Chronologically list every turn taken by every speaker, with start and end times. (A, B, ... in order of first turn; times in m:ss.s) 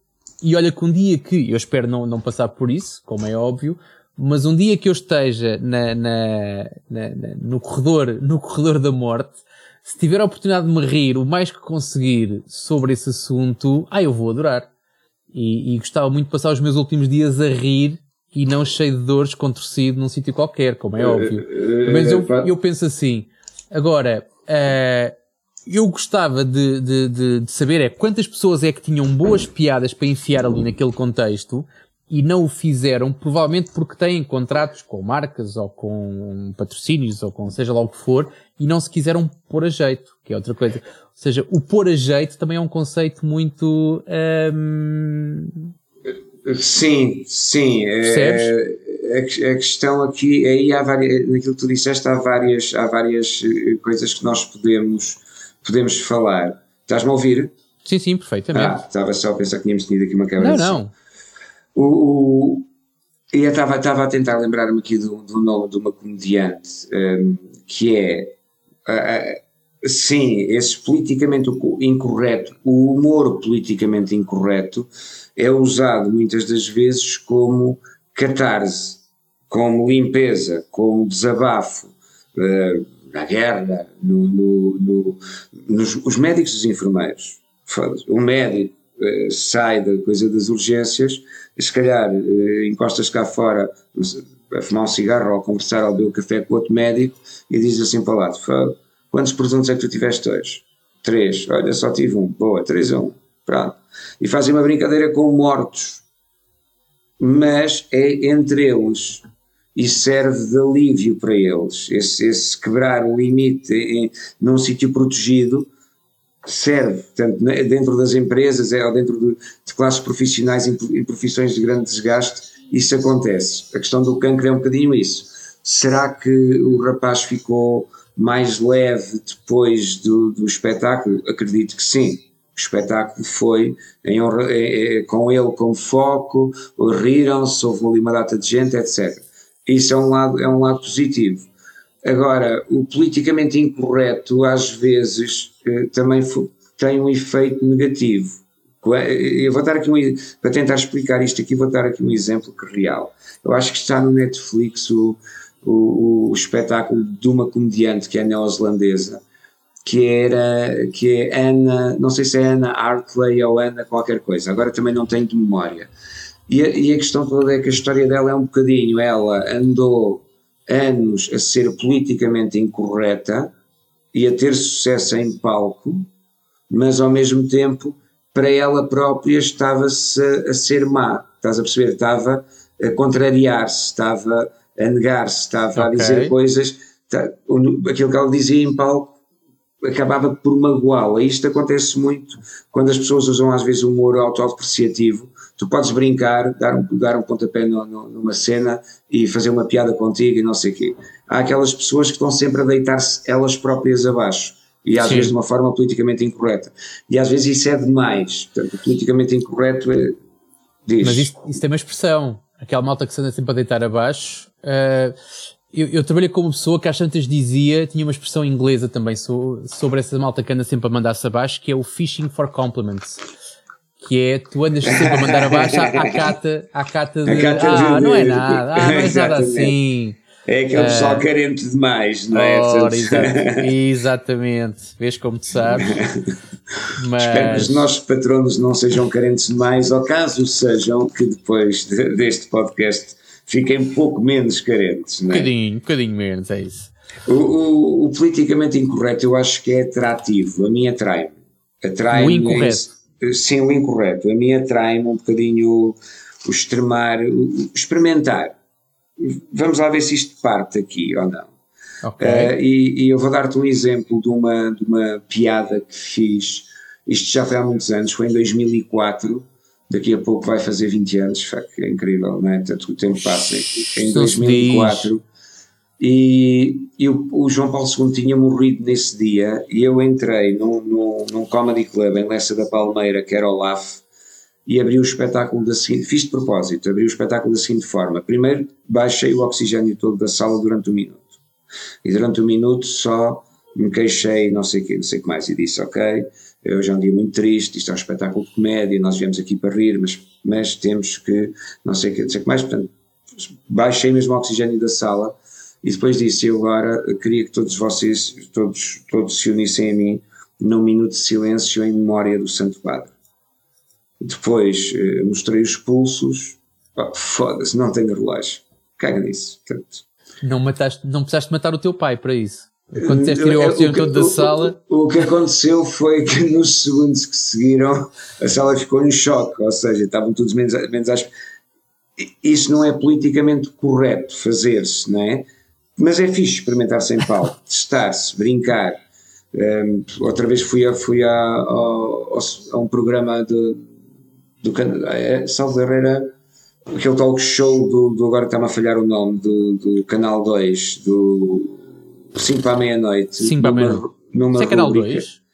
0:00.4-0:14.7 A
0:15.3-0:25.2 A
0:21.0-0:22.5 B
0:25.7-0:45.7 A
0:46.1-0:57.5 B
0:48.0-0:48.5 A
0:57.8-0:58.8 A
0:58.5-1:00.8 B
1:00.4-1:00.9 A
1:01.8-1:02.7 B
1:03.3-1:46.0 B
1:47.2-1:49.2 B
1:49.8-1:55.7 B
1:56.4-2:21.5 B
2:22.0-2:39.2 B
2:39.8-2:45.9 B
2:46.5-2:53.5 B
2:54.1-2:56.1 B
2:56.7-3:09.2 B
3:05.8-3:06.3 A
3:09.8-3:30.2 B
3:25.0-3:25.3 A
3:30.9-3:31.3 B
3:31.0-3:35.2 A
3:35.7-3:43.2 A
3:44.0-3:50.2 A
3:44.9-3:46.2 B
3:47.3-3:49.8 B
3:50.5-3:53.7 B
3:50.7-3:51.3 A
3:52.3-3:56.0 A
3:55.8-4:05.5 B
3:57.0-3:57.9 A
4:05.3-4:06.9 A
4:07.3-4:18.6 B
4:12.1-4:12.9 A
4:19.2-4:21.5 B
4:22.0-4:22.5 A
4:22.2-4:35.2 B
4:34.0-4:35.1 A
4:36.0-4:44.0 B
4:44.7-4:51.4 B
4:52.0-5:13.1 B
5:14.2-5:20.0 B
5:20.4-5:24.8 A
5:23.0-5:31.3 B
5:32.2-5:35.5 B
5:36.0-5:39.0 B
5:39.5-5:43.9 B
5:44.6-5:46.3 B
5:46.9-5:55.3 B
5:53.4-5:54.0 A
5:54.6-5:55.4 A